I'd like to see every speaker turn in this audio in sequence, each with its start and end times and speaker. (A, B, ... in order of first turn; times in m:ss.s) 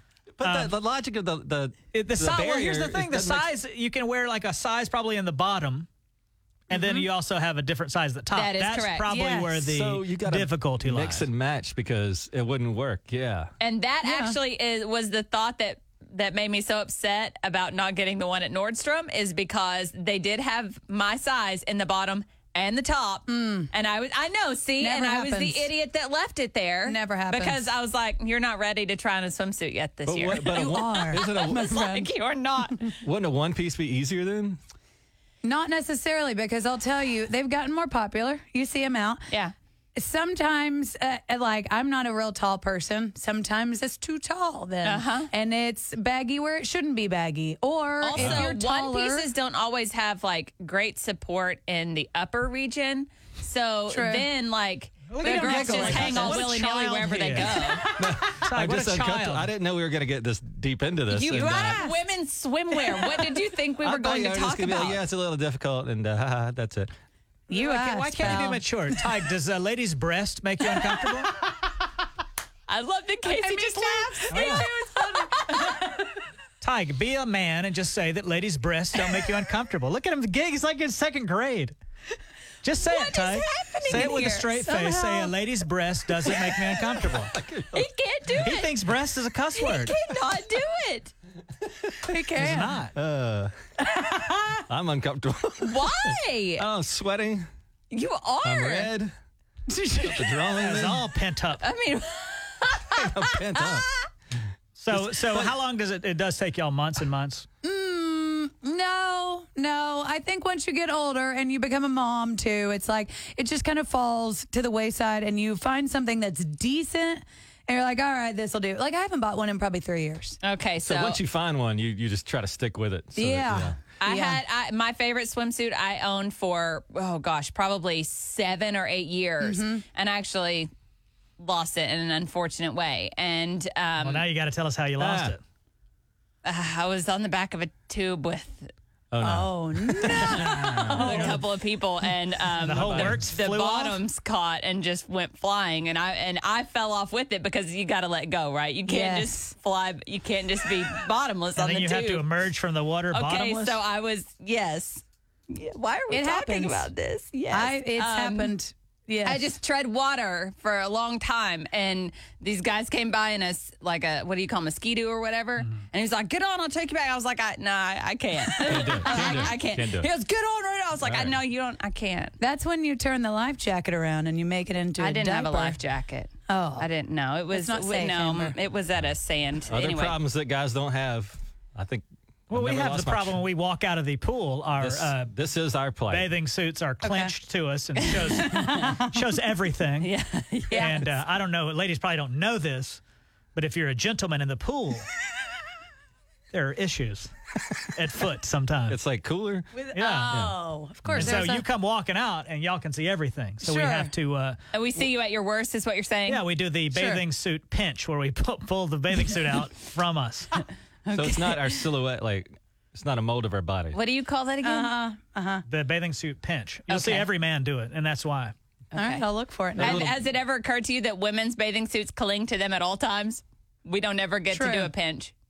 0:00.4-0:03.5 A
0:00.4-0:00.7 B
0:01.9-0:05.9 B
0:06.7-0:11.3 B
0:06.7-0:07.1 C
0:08.3-0:09.2 D
0:09.1-0:09.6 C
0:09.6-0:13.5 A
0:13.6-0:32.9 D
0:14.0-0:14.4 C
0:23.3-0:23.7 C
0:24.8-0:25.7 C
0:26.8-0:27.7 C
0:30.1-0:31.8 A
0:30.3-0:32.1 C
0:33.0-0:34.6 A
0:35.4-0:39.3 C
0:40.0-0:49.3 C
0:44.8-0:45.3 D
0:48.0-0:57.9 D
0:48.2-0:48.5 A
0:53.9-0:54.3 C
0:55.1-0:59.5 B
0:55.2-0:56.4 C
0:55.7-0:56.3 A
0:58.0-1:01.8 A
1:01.1-1:05.0 D
1:01.3-1:02.0 C
1:02.7-1:03.3 C
1:03.8-1:06.9 A
1:07.5-1:09.2 C
1:07.5-1:11.3 B
1:12.7-1:15.8 D
1:13.3-1:16.0 C
1:14.3-1:14.7 B
1:16.6-1:21.8 B
1:22.6-1:27.3 B
1:22.8-1:24.7 D
1:23.9-1:25.4 C
1:26.9-1:27.9 A
1:27.7-1:28.7 D
1:28.4-1:30.0 B
1:29.6-1:31.1 D
1:32.0-1:32.8 C
1:32.4-1:32.9 B
1:32.6-1:33.6 A
1:34.1-1:34.4 C
1:34.7-1:37.5 A
1:35.6-1:36.6 D
1:37.9-1:38.9 D
1:38.4-1:39.1 A
1:39.7-1:40.4 C
1:40.0-1:41.1 A
1:40.6-1:41.7 B
1:41.6-1:44.0 D
1:42.9-1:43.9 A
1:44.8-1:47.5 B
1:44.9-1:45.5 A
1:47.6-2:00.4 C
2:00.4-2:01.2 D
2:00.8-2:03.8 A
2:03.2-2:04.4 C
2:04.0-2:10.7 D
2:09.4-2:09.8 C
2:11.4-2:14.3 D
2:14.0-2:15.4 B
2:15.0-2:15.4 A
2:16.4-2:18.7 D
2:19.1-2:21.0 A
2:19.2-2:21.4 C
2:20.0-2:32.4 D
2:21.0-2:21.4 B
2:22.6-2:24.0 B
2:22.7-2:23.3 A
2:28.9-2:29.5 C
2:31.6-2:33.8 B
2:33.1-2:38.6 D
2:36.1-2:36.9 C
2:37.5-2:39.5 C
2:39.2-2:52.4 D
2:48.6-2:50.1 A
2:49.1-2:49.4 C
2:51.0-2:51.4 A
2:52.4-2:55.8 C
2:55.0-3:00.2 D
2:56.5-2:56.9 C
2:57.5-2:58.6 C
2:59.7-3:03.4 A
3:02.5-3:05.3 B
3:04.8-3:06.3 A
3:06.1-3:10.1 B
3:07.0-3:07.3 C
3:08.1-3:08.8 D
3:08.4-3:09.2 C
3:10.0-3:11.1 D
3:10.7-3:11.1 C
3:10.7-3:13.0 B
3:13.6-3:15.1 B
3:16.5-3:17.3 B
3:17.9-3:19.0 B
3:18.9-3:19.7 A
3:19.7-3:21.7 C
3:19.9-3:20.4 B
3:20.3-3:21.4 A
3:21.2-3:24.6 B
3:23.6-3:24.1 C
3:24.7-3:26.5 D
3:26.3-3:30.5 B
3:26.9-3:27.2 C
3:31.1-3:31.7 C
3:31.1-3:34.0 A
3:33.9-3:35.0 D
3:34.6-3:35.6 C
3:35.7-3:38.5 B
3:36.9-3:37.3 D
3:38.9-3:40.1 C
3:39.0-3:39.3 D
3:39.8-3:40.2 A
3:39.8-3:45.3 D
3:44.5-3:44.9 C